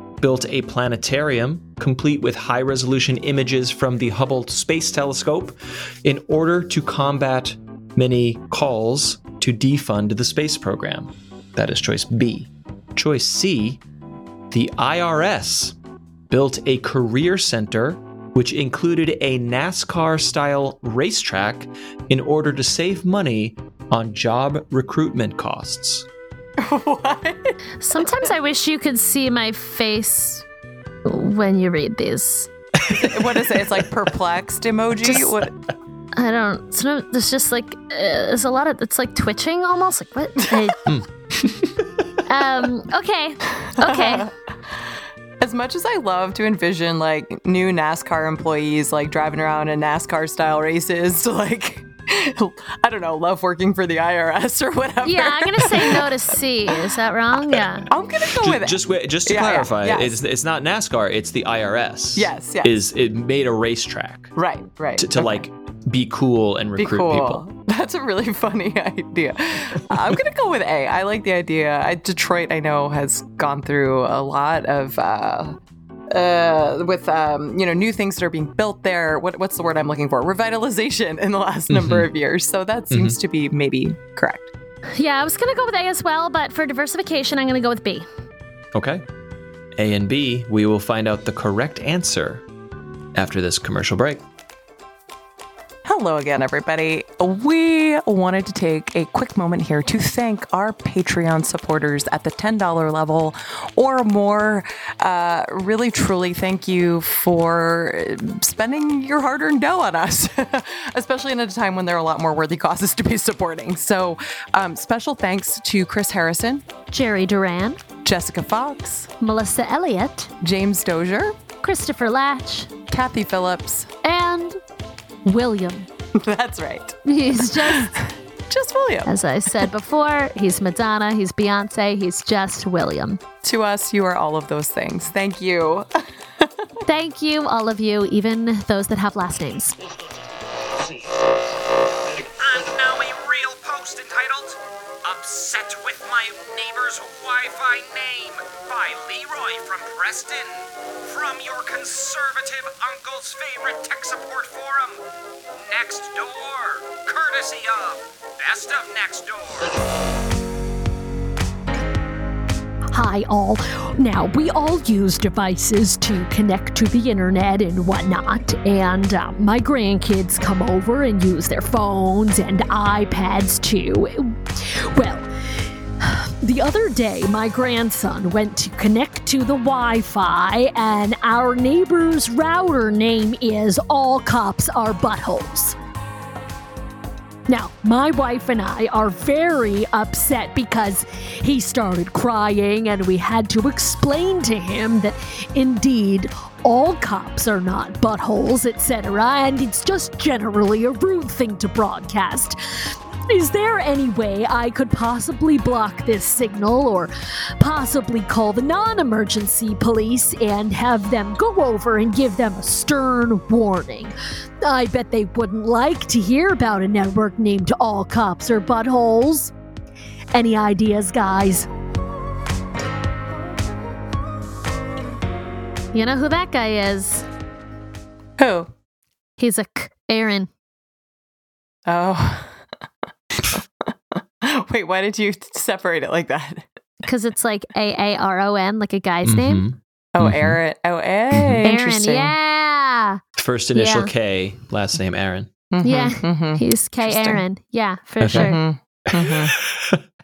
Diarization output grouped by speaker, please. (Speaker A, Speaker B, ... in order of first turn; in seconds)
Speaker A: 0.2-13.8, 14.5-15.8, 16.3-26.1, 40.9-42.2, 58.3-64.4, 65.0-67.4, 81.7-82.1, 82.9-83.2, 88.7-89.0, 89.8-92.5, 93.2-94.2, 239.2-240.6, 241.3-241.6, 243.4-245.5, 248.2-248.5, 249.1-250.0
Speaker B: 26.6-28.3, 33.0-35.6, 43.7-44.7, 45.4-56.1, 57.9-60.2, 62.2-62.8, 64.4-65.4, 66.8-75.6, 76.1-84.5, 95.9-116.6, 118.0-119.1, 120.4-121.4, 122.9-123.9, 126.2-129.7, 133.4-136.7, 228.4-228.7, 231.9-232.7, 233.4-236.8, 240.2-242.3, 245.7-247.4, 248.3-249.6
Speaker C: 27.8-30.5, 31.1-32.5, 36.1-40.9, 42.3-44.3, 55.0-57.9, 85.0-88.1, 116.9-117.8, 119.2-120.3, 121.6-122.7, 124.0-124.6, 125.2-125.9, 127.0-127.9, 129.1-133.2, 136.9-139.8, 225.9-227.3, 229.4-230.5, 237.0-239.7, 241.6-243.2, 243.8-244.1, 245.8-248.6
Speaker D: 142.1-159.8
Speaker E: 162.9-175.3, 176.0-185.8, 187.5-202.6, 203.3-214.1, 214.7-219.5, 220.3-221.7